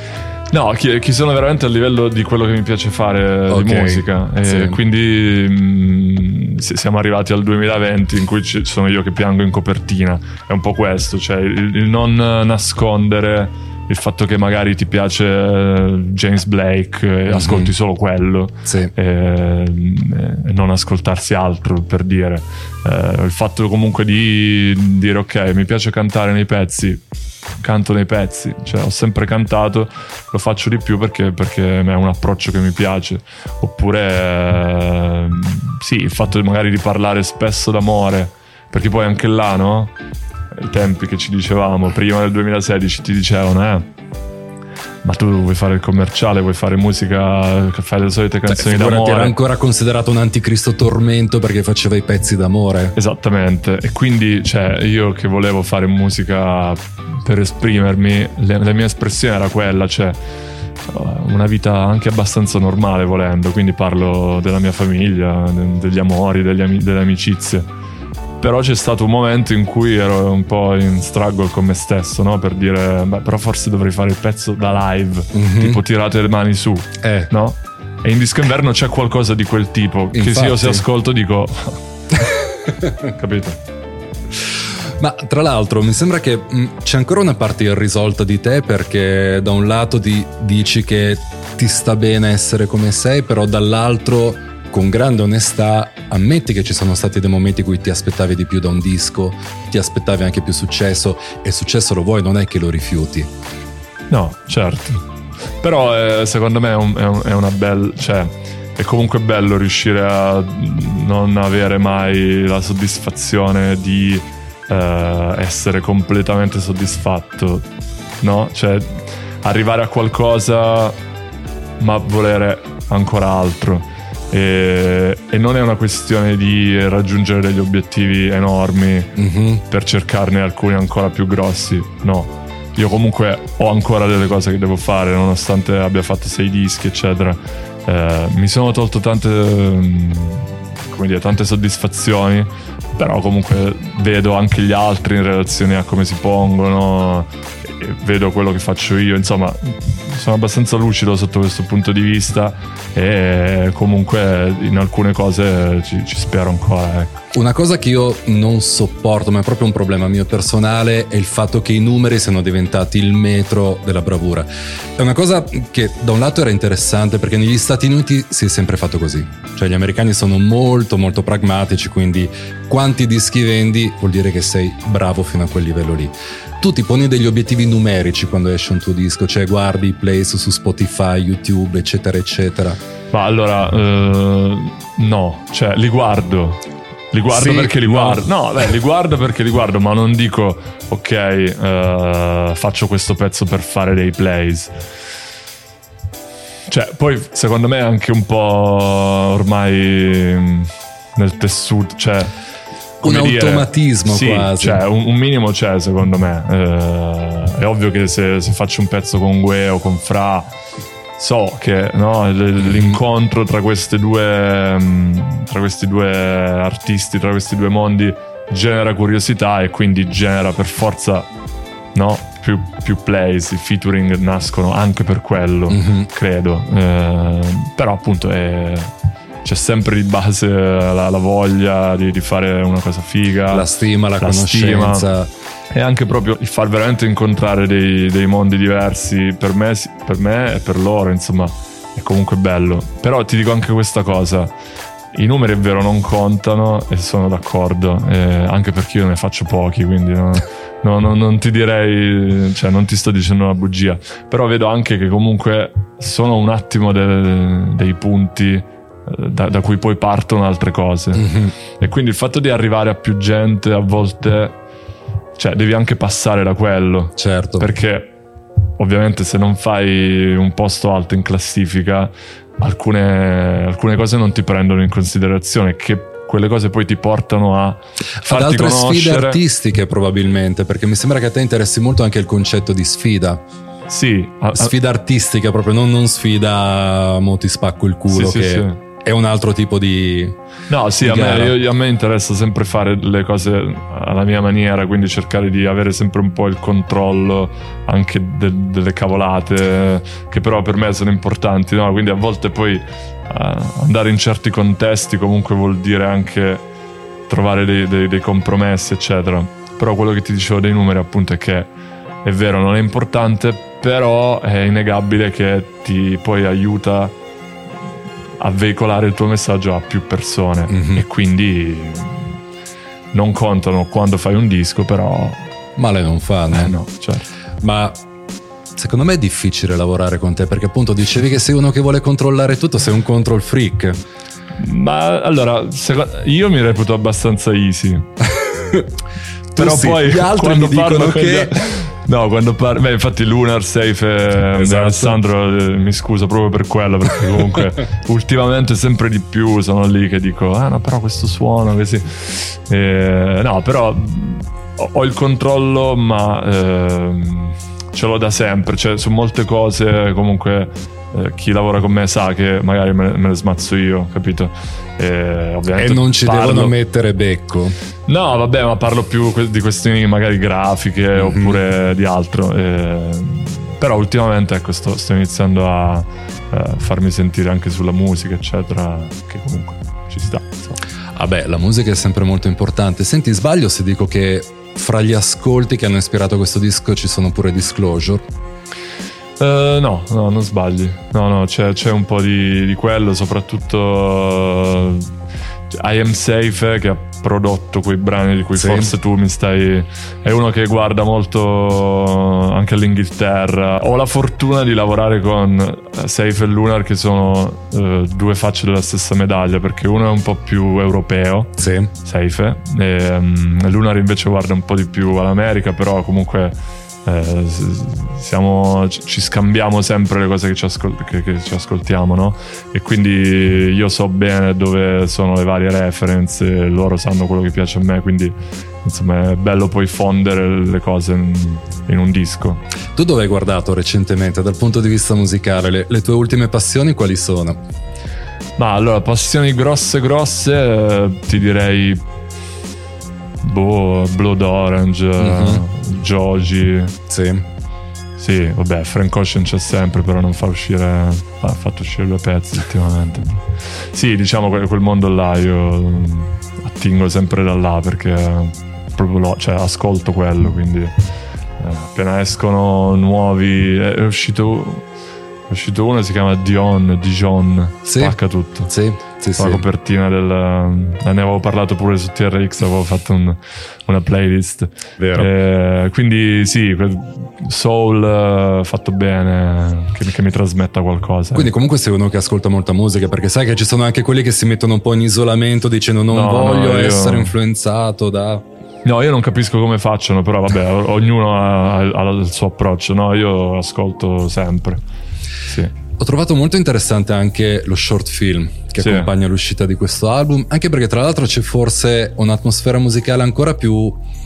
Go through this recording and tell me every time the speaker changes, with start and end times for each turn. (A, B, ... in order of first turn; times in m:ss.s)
0:00.5-0:27.0 A
0:03.5-0:04.8 B
0:17.3-0:17.7 B
0:18.7-0:18.9 B
0:27.6-0:39.9 A
0:40.5-0:43.9 A
0:45.0-0:49.4 A
0:48.5-0:53.0 B
0:53.0-1:00.2 A
1:00.8-1:07.7 A
1:08.4-1:21.8 A
1:15.3-1:15.8 B
1:17.0-1:17.3 B
1:20.1-1:20.8 B
1:22.2-1:23.1 B
1:23.1-1:23.6 A
1:24.8-1:43.3 B
1:44.1-1:45.0 A
1:45.6-1:57.7 A
1:58.2-2:01.0 A
2:01.8-2:09.1 A
2:09.2-2:09.6 B
2:09.7-2:37.2 A
2:37.3-3:02.8 B
3:03.1-3:14.7 A
3:07.3-3:08.3 B
3:16.7-3:22.3 A
3:23.0-3:24.8 B
3:23.0-3:30.5 A
3:31.2-3:41.3 A
3:32.6-3:33.0 B
3:42.0-3:48.9 A
3:45.7-3:46.1 B
3:49.4-3:53.7 A
3:53.5-3:55.3 B
3:54.2-3:55.0 A
3:55.7-4:04.5 A
4:05.1-4:21.3 A
4:21.1-4:21.5 B
4:21.8-4:24.6 A
4:25.4-4:28.1 A
4:27.2-4:27.7 B
4:28.8-4:39.4 A
4:38.2-4:43.4 B
4:43.9-4:44.7 A
4:44.5-4:50.4 B
4:48.1-4:48.8 A
4:50.7-5:06.6 A
4:51.0-4:51.6 B
5:07.3-5:11.7 A
5:12.2-5:17.1 A
5:18.4-5:22.3 A
5:20.7-5:21.0 B
5:23.1-5:25.4 A
5:25.8-5:26.8 B
5:26.5-5:27.3 A
5:27.6-5:28.0 B
5:28.8-5:34.0 B
5:34.6-5:38.1 A
5:38.3-5:38.9 B
5:39.5-5:41.6 B
5:39.6-6:06.7 A
5:44.6-5:45.2 B
6:05.8-6:07.8 B
6:08.1-6:20.8 A
6:11.2-6:11.6 B
6:21.2-6:28.2 B
6:29.4-6:35.1 A
6:35.7-6:51.5 A
6:38.6-6:38.9 B
6:51.6-6:51.9 B
6:52.0-6:56.5 A
6:57.0-7:12.6 A
7:13.0-7:17.6 B
7:18.6-7:22.0 A
7:23.4-7:27.0 A
7:25.2-7:25.6 B
7:27.1-7:27.5 B
7:28.2-7:40.9 A
7:41.6-7:44.9 A
7:45.5-7:48.7 A
7:47.9-7:49.6 B
7:49.4-8:01.5 A
7:55.0-7:55.3 B
8:01.3-8:08.4 B
8:06.1-8:07.3 A
8:08.8-8:14.8 A
8:15.4-8:15.7 A
8:16.0-8:24.0 B
8:18.8-8:19.1 A